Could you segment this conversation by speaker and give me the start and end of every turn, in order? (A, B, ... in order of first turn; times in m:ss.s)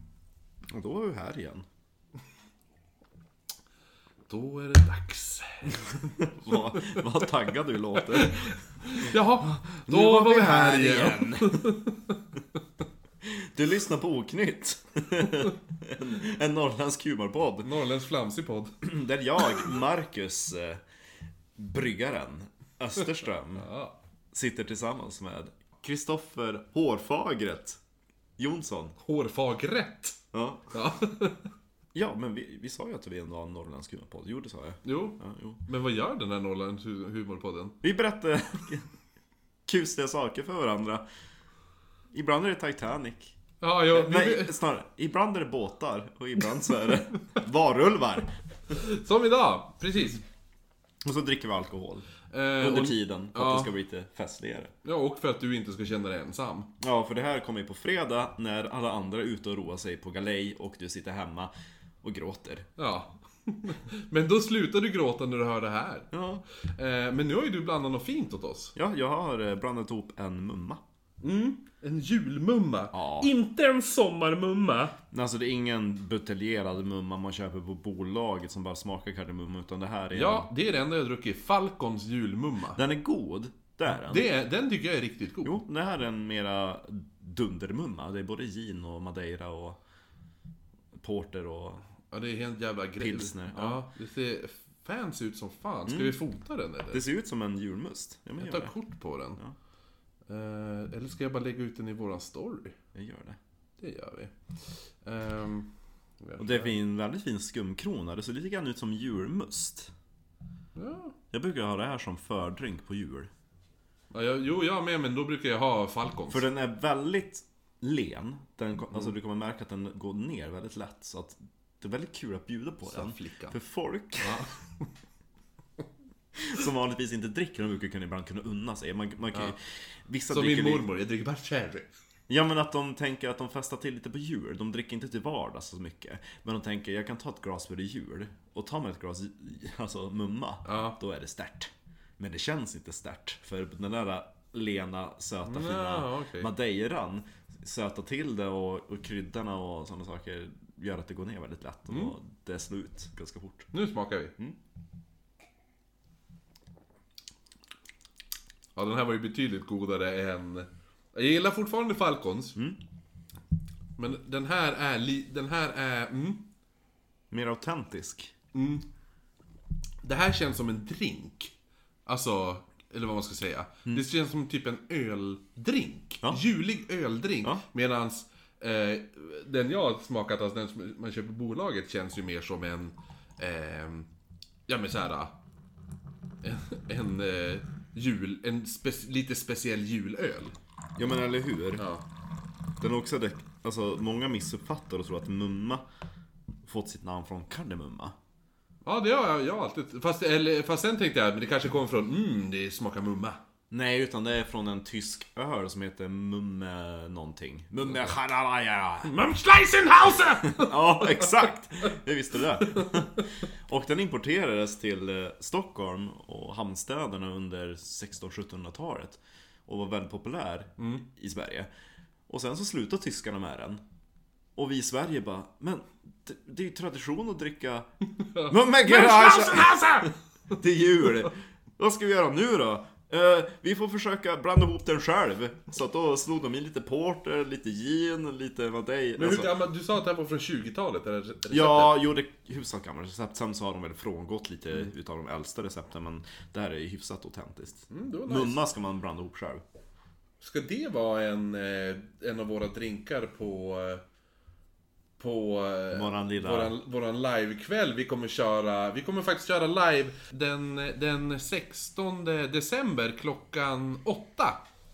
0:00.7-0:01.6 A
0:04.3-0:07.0 B
0:06.2-0:11.7 A
0:08.1-0:12.2 B
0:13.2-0:17.7 A
0:17.6-0:18.7 B
0:18.8-0:20.8 A
0:21.6-0:23.7 A
0:23.5-0:24.0 B
0:24.3-0:27.8 A
0:28.4-0:29.0 A
0:29.0-0:30.2 B
0:30.3-0:30.7 A
0:30.7-0:31.5 B
0:31.9-0:35.6 A
0:34.8-0:37.8 B
0:37.8-0:38.9 A
0:39.6-0:41.0 A
0:42.1-0:43.4 A
0:43.6-0:44.5 B
0:43.9-0:48.3 A
0:48.7-0:50.2 B
0:51.0-0:52.0 A
0:52.3-0:53.7 B
0:52.6-0:54.7 A
0:54.8-0:56.7 B
0:56.8-1:01.5 A
1:02.0-1:02.7 A
1:02.8-1:06.1 B
1:06.1-1:06.4 A
1:06.7-1:08.7 B
1:08.8-1:10.8 A
1:11.2-1:14.9 B
1:12.9-1:13.3 A
1:15.1-1:20.5 A
1:20.1-1:22.8 B
1:22.7-1:24.3 A
1:24.0-1:25.5 B
1:25.4-1:29.8 A
1:31.0-1:31.8 A
1:32.1-1:37.0 B
1:33.0-1:33.8 A
1:35.9-1:36.2 A
1:36.9-1:38.7 A
1:38.4-1:39.4 B
1:40.3-1:42.8 B
1:42.9-1:43.4 A
1:43.8-1:44.3 B
1:45.0-1:45.7 B
1:46.2-1:46.7 B
1:46.4-1:49.9 A
1:50.8-1:51.1 B
1:51.3-1:53.3 A
1:54.1-1:56.4 B
1:56.3-2:04.4 A
2:02.9-2:03.6 B
2:04.2-2:04.9 B
2:06.3-2:10.8 A
2:10.3-2:11.9 B
2:12.3-2:33.7 A
2:20.6-2:21.0 B
2:25.4-2:26.5 B
2:31.9-2:32.1 B
2:33.7-2:34.3 B
2:38.8-2:42.6 B
2:44.0-2:46.4 B
2:47.3-2:48.3 A
2:48.5-2:48.8 B
2:50.0-2:51.5 B
2:52.0-3:04.1 B
3:04.7-3:05.3 B
3:06.4-3:10.5 B
3:11.0-3:11.8 A
3:11.8-3:12.0 B
3:12.8-3:15.8 A
3:16.6-3:18.1 A
3:18.8-3:23.4 B
3:23.7-3:29.1 A
3:29.0-3:31.5 B
3:30.4-3:41.7 A
3:32.6-3:33.2 B
3:40.8-3:41.0 B
3:42.3-3:43.8 A
3:44.6-3:47.9 A
3:48.1-3:50.2 B
3:48.5-3:59.6 A
3:59.2-4:02.1 B
4:01.5-4:09.6 A
4:07.9-4:08.6 B
4:10.4-4:14.0 B
4:15.2-4:24.6 B
4:15.9-4:16.7 A